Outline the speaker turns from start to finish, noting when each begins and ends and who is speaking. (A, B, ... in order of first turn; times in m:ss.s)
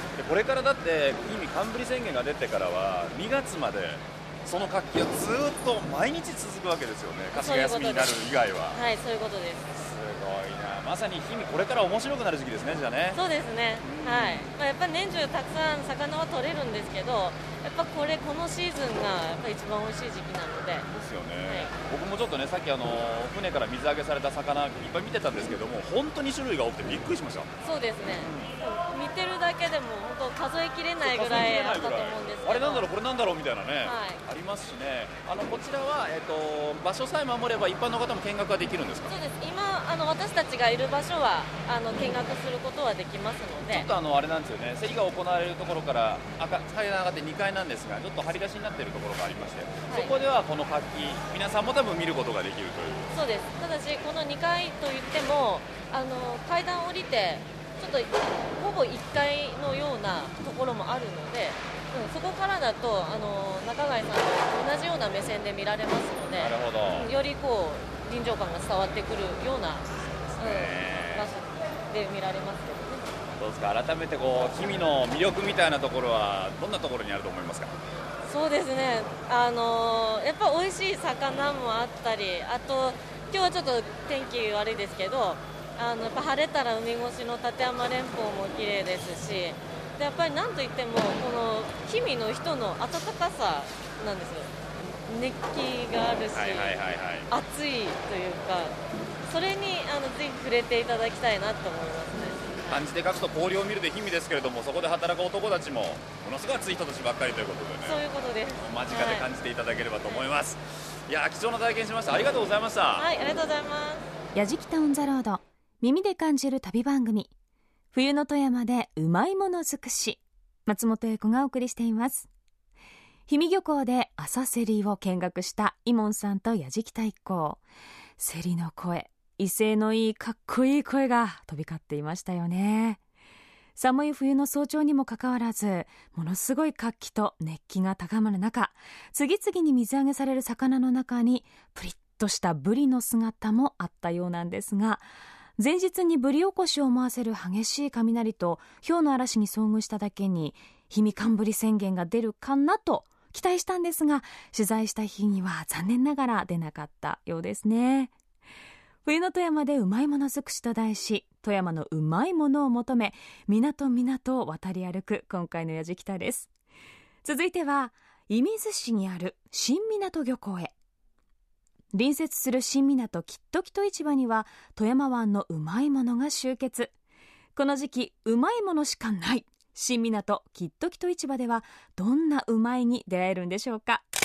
0:00.2-0:08.8 A
0:07.3-0:08.2 B
0:08.7-0:09.7 B
0:09.7-0:13.2 A
0:13.1-0:20.9 B
0:13.8-0:14.5 A
0:20.8-0:27.5 A
0:21.4-0:21.7 B
0:27.6-0:32.9 B
0:28.2-0:28.5 A
0:31.0-0:39.1 A
0:33.8-0:34.2 B
0:39.1-0:43.9 B
0:43.7-0:53.1 A
0:53.1-1:09.9 B
1:06.4-1:07.1 A
1:10.3-1:11.3 A
1:10.4-1:13.1 B
1:13.4-1:17.7 A
1:18.2-1:34.5 B
1:35.0-1:36.8 B
1:36.3-1:37.3 A
1:37.3-1:42.8 B
1:42.7-1:48.0 A
1:47.8-1:49.2 B
1:48.6-1:53.0 A
1:53.0-1:54.0 B
1:54.3-1:57.3 C
1:57.9-2:02.3 C
2:03.3-2:07.6 C
2:08.2-2:13.0 C
2:13.8-2:25.0 C
2:25.6-2:38.1 C
2:39.0-2:46.5 C
2:47.2-2:50.7 C
2:51.9-2:56.9 C
2:57.6-3:04.0 C